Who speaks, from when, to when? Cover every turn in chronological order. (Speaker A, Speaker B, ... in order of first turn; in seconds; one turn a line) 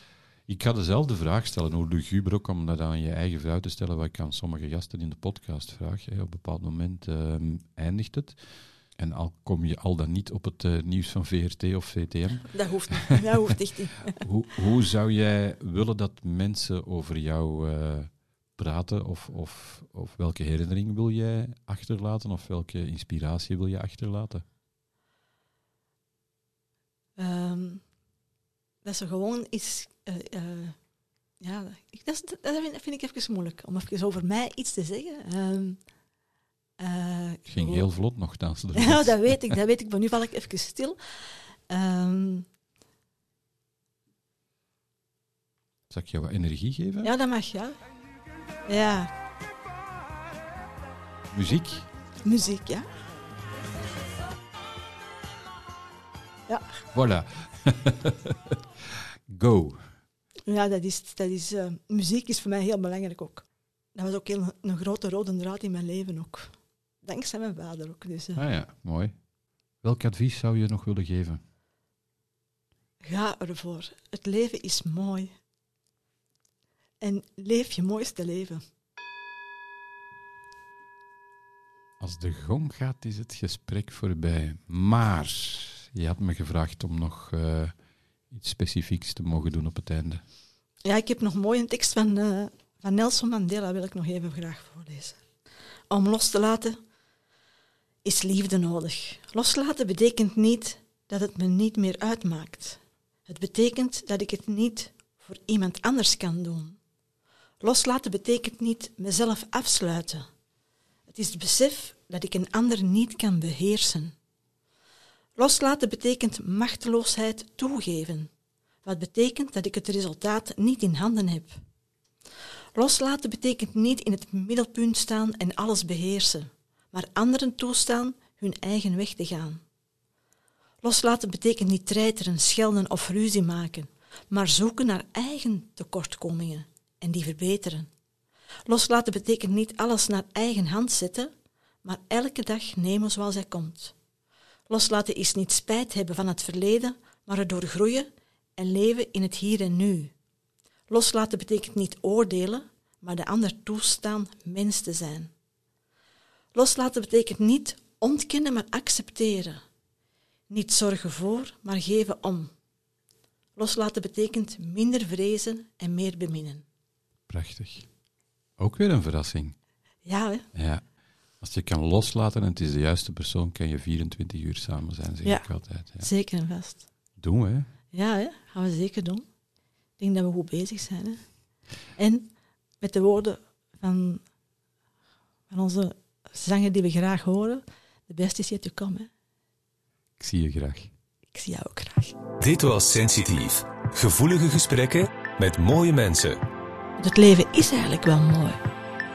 Speaker A: 0.5-8.4
Speaker A: 8.9-13.2
Speaker B: 12.5-14.2
Speaker A: 14.1-24.4
Speaker B: 27.2-27.8
Speaker B: 28.8-30.8
Speaker B: 31.4-35.8
Speaker B: 36.8-37.9
Speaker A: 37.5-39.6
Speaker B: 38.7-42.5
Speaker A: 45.9-47.1
Speaker B: 47.0-47.8
Speaker B: 48.6-49.1
Speaker A: 51.3-51.9
Speaker B: 52.2-52.9
Speaker A: 56.9-59.9
Speaker B: 60.5-68.4
Speaker A: 68.3-69.1
Speaker A: 69.8-71.4
Speaker B: 73.0-75.3
Speaker B: 77.0-78.6
Speaker A: 82.0-87.7
Speaker A: 88.3-90.2
Speaker B: 90.8-95.2
Speaker B: 95.9-96.8
Speaker B: 98.0-106.8
Speaker B: 107.6-110.3
Speaker B: 111.1-114.1
Speaker B: 115.4-118.3
Speaker B: 118.8-121.6
Speaker B: 122.7-129.6
Speaker B: 130.8-137.9
Speaker B: 138.7-141.3
Speaker B: 141.8-143.9
Speaker B: 144.7-150.1
Speaker B: 150.9-155.3
Speaker B: 156.5-159.6
Speaker B: 160.5-162.5
Speaker B: 163.6-166.6
Speaker A: 167.3-167.9
Speaker A: 168.6-169.5
Speaker B: 170.0-170.4
Speaker A: 170.5-170.8
Speaker A: 171.4-176.1
Speaker B: 176.0-176.8
Speaker A: 177.2-177.7
Speaker B: 177.9-179.2
Speaker B: 180.0-181.3
Speaker B: 181.9-184.2
Speaker B: 185.5-189.1
Speaker A: 190.2-190.9
Speaker B: 191.3-192.2
Speaker C: 192.4-196.4
Speaker B: 197.0-198.6